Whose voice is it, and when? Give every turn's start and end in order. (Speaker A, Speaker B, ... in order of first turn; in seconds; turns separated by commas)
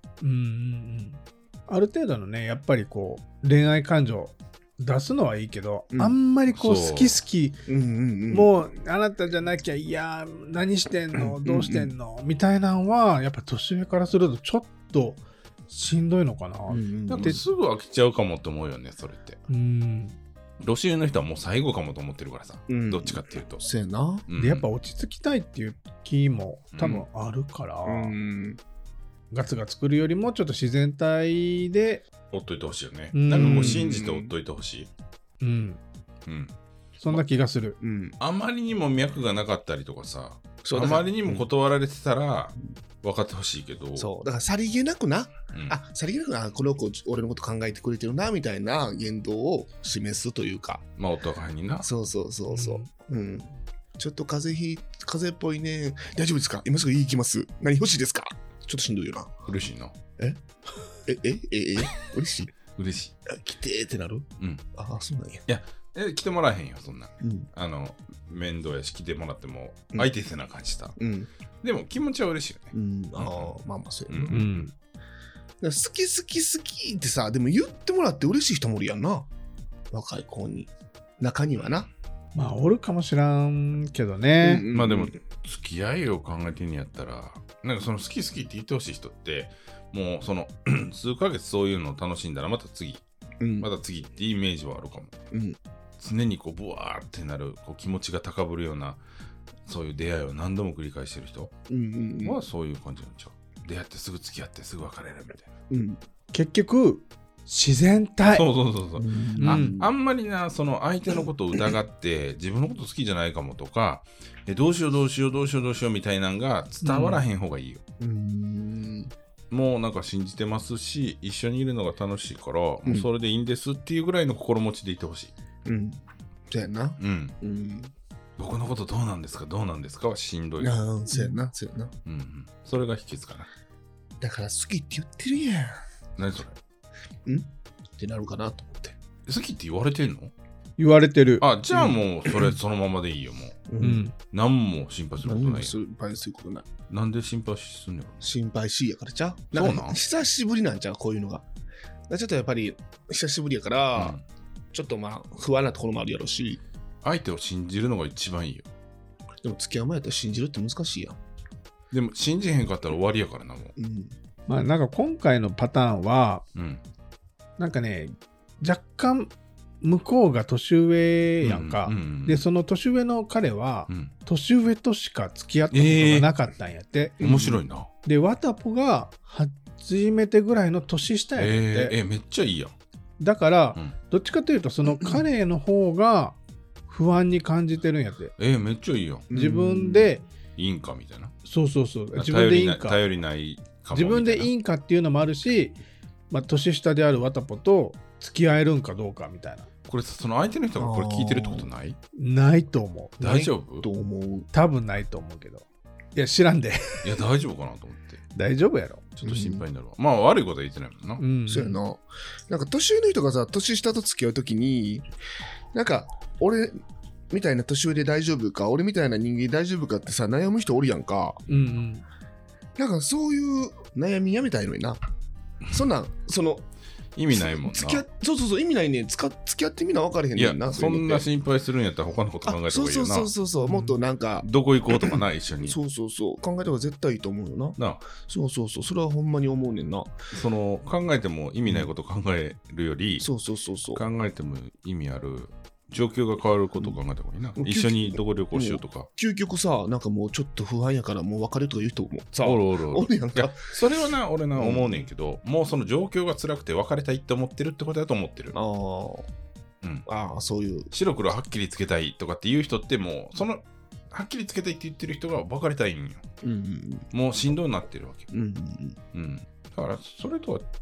Speaker A: 0.2-7.6, Speaker B: 6.5-7.2, Speaker C: 7.7-8.5, Speaker A: 8.3-17.4, Speaker C: 11.1-11.9, Speaker C: 16.7-17.4, Speaker B: 17.1-19.4, Speaker A: 19.5-20.2, Speaker B: 20.6-23.6, Speaker C: 22.7-24.2, Speaker B: 24.3-24.6, Speaker A: 24.4-28.1, Speaker B: 26.7-27.0, Speaker C: 27.9-28.6, Speaker A: 29.3-32.0, Speaker B: 32.3-34.9, Speaker A: 33.1-33.8, Speaker C: 33.3-34.3, Speaker A: 35.4-35.8, Speaker B: 36.2-36.5, Speaker A: 37.0-37.8, Speaker C: 37.8-38.2, Speaker B: 38.2-44.1, Speaker C: 40.6-41.5, Speaker C: 44.0-50.8, Speaker B: 51.0-51.9, Speaker C: 51.8-59.3, Speaker A: 52.5-52.9, Speaker B: 59.5-60.0, Speaker C: 61.0-62.5, Speaker B: 62.8-63.1, Speaker C: 63.2-65.4, Speaker B: 64.4-64.6, Speaker B: 65.5-71.0, Speaker C: 67.2-67.5, Speaker C: 71.0-71.3, Speaker B: 71.6-74.7, Speaker C: 72.7-74.4, Speaker A: 74.3-74.7, Speaker C: 75.6-79.3, Speaker C: 79.9-81.9, Speaker A: 82.3-84.7, Speaker C: 84.4-85.2, Speaker B: 84.7-93.0, Speaker C: 93.4-93.7, Speaker B: 93.6-95.1, Speaker C: 95.3-95.6, Speaker B: 96.0-99.0, Speaker B: 99.6-101.5, Speaker C: 101.7-102.4, Speaker B: 102.2-105.5, Speaker C: 105.7-106.0, Speaker A: 106.3-108.4, Speaker B: 108.2-117.8, Speaker C: 109.0-109.9, Speaker A: 109.4-109.8, Speaker A: 116.8-117.2, Speaker C: 118.0-119.1, Speaker B: 119.5-125.3, Speaker C: 125.6-127.9, Speaker B: 127.0-127.3, Speaker B: 128.4-130.8, Speaker C: 130.6-131.9, Speaker B: 132.1-133.5, Speaker C: 134.2-135.8, Speaker B: 136.2-136.6, Speaker C: 137.2-138.9, Speaker B: 139.2-140.3, Speaker A: 140.8-141.4, Speaker B: 141.4-143.7, Speaker C: 141.7-142.5, Speaker C: 143.7-144.0, Speaker A: 143.8-144.1, Speaker B: 144.3-145.8, Speaker C: 145.2-146.7, Speaker B: 146.9-148.3, Speaker C: 148.2-151.4, Speaker B: 149.5-150.0, Speaker C: 152.1-154.2, Speaker B: 153.9-154.2, Speaker C: 154.7-156.6, Speaker B: 157.0-158.7, Speaker C: 159.4-161.2, Speaker B: 161.9-163.7, Speaker C: 163.8-164.1, Speaker A: 164.5-166.4, Speaker B: 166.5-166.8, Speaker A: 167.6-177.2, Speaker B: 171.4-172.4, Speaker B: 175.7-176.3, Speaker C: 177.2-177.6, Speaker B: 177.2-177.9, Speaker A: 178.0-181.9, Speaker B: 181.4-182.7, Speaker A: 183.2-186.4, Speaker A: 186.9-188.3, Speaker B: 188.4-189.3, Speaker C: 189.3-190.1, Speaker A: 189.3-190.2, Speaker B: 190.6-191.3, Speaker A: 191.4-193.0, Speaker B: 192.1-194.5, Speaker A: 193.9-195.8, Speaker A: 196.3-199.7, Speaker B: 199.9-202.0, Speaker C: 200.8-201.7, Speaker A: 202.2-203.2, Speaker B: 203.2-203.9, Speaker C: 203.2-204.5, Speaker A: 204.5-207.1, Speaker B: 207.0-208.2, Speaker A: 208.3-209.0, Speaker B: 209.2-211.2, Speaker C: 209.2-209.6, Speaker A: 211.2-211.8, Speaker C: 211.5-215.1, Speaker C: 215.7-216.8, Speaker C: 217.3-221.4, Speaker B: 221.5-221.8, Speaker A: 221.5-222.0, Speaker C: 222.8-225.0, Speaker C: 225.7-226.6, Speaker B: 227.2-228.0, Speaker C: 227.3-231.2, Speaker B: 230.3-233.3, Speaker C: 232.4-240.1, Speaker A: 233.6-233.9, Speaker B: 234.4-235.8, Speaker B: 237.8-238.0, Speaker B: 240.3-243.3, Speaker C: 243.2-244.0, Speaker B: 243.9-249.1, Speaker C: 247.6-253.7, Speaker B: 252.4-258.6, Speaker C: 254.6-255.0, Speaker C: 258.5-259.3, Speaker C: 260.1-260.9, Speaker B: 260.9-266.2, Speaker C: 266.4-267.1, Speaker B: 267.1-268.3, Speaker C: 268.3-269.0, Speaker B: 269.1-270.6